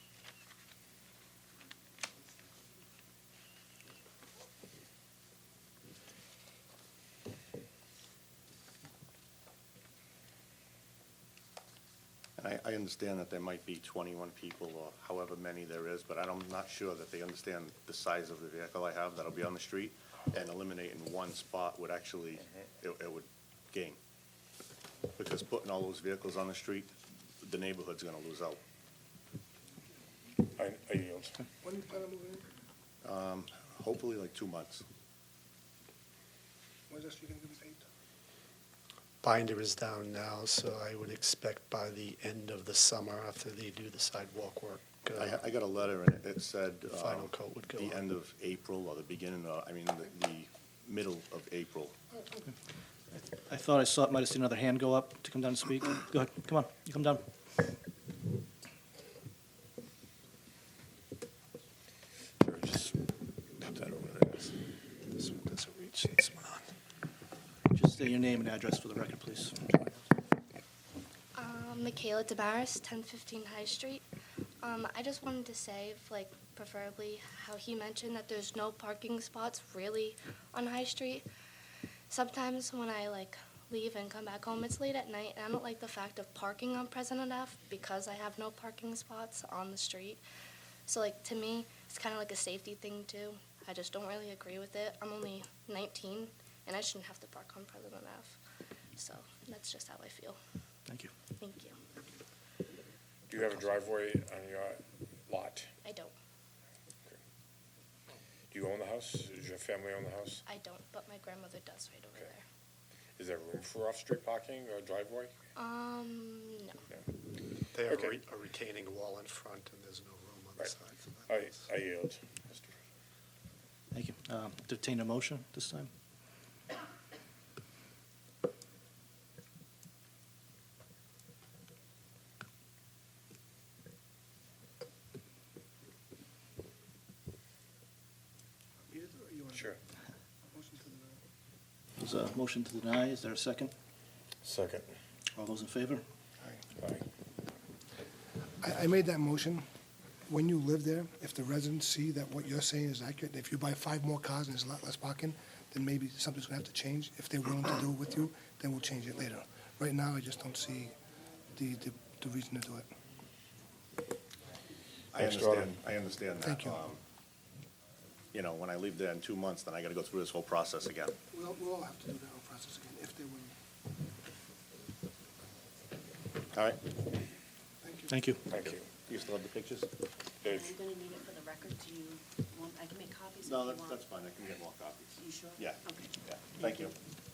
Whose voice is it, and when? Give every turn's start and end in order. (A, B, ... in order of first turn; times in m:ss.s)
0:12.4-0:24.0 A
0:25.2-0:28.6 A
0:30.6-0:31.4 B
0:31.6-0:32.5 C
0:33.0-0:34.8 A
0:36.9-0:37.8 C
0:39.2-0:45.4 D
0:45.1-0:52.0 A
0:46.9-0:48.0 D
0:53.2-0:57.2 E
1:02.4-1:03.0 B
1:03.6-1:04.5 B
1:05.1-1:06.6 D
1:07.7-1:10.0 E
1:11.3-1:14.0 F
1:14.6-1:21.2 F
1:22.1-1:30.2 F
1:30.9-1:38.4 F
1:39.0-1:40.4 F
1:41.4-1:41.8 F
1:43.3-1:45.7 B
1:45.8-1:46.1 F
1:48.5-1:50.4 B
1:50.4-1:52.4 F
1:53.2-1:55.3 B
1:55.6-1:56.7 F
1:57.7-2:01.4 D
1:57.9-1:58.2 B
2:01.3-2:02.8 B
2:03.9-2:05.9 E
2:18.9-2:19.7 C
2:20.5-2:21.2 C
2:22.0-2:23.7 E
2:24.4-2:24.9 B
2:25.3-2:26.0 E
2:26.8-2:27.0 B
2:28.6-2:29.6 C
2:30.3-2:40.9 C
2:41.5-2:42.9 C
2:45.1-2:47.0 A
2:45.2-2:45.8 B
2:46.4-2:46.8 C
2:48.3-2:51.2 A
2:51.3-2:53.5 C
2:56.5-2:56.9 A
2:57.8-2:58.2 C
2:58.1-2:58.4 E
2:58.5-2:58.8 B
2:58.5-2:59.9 A
3:00.4-3:00.7 B
3:00.4-3:04.0 G
3:03.4-3:06.9 A
3:05.2-3:06.1 G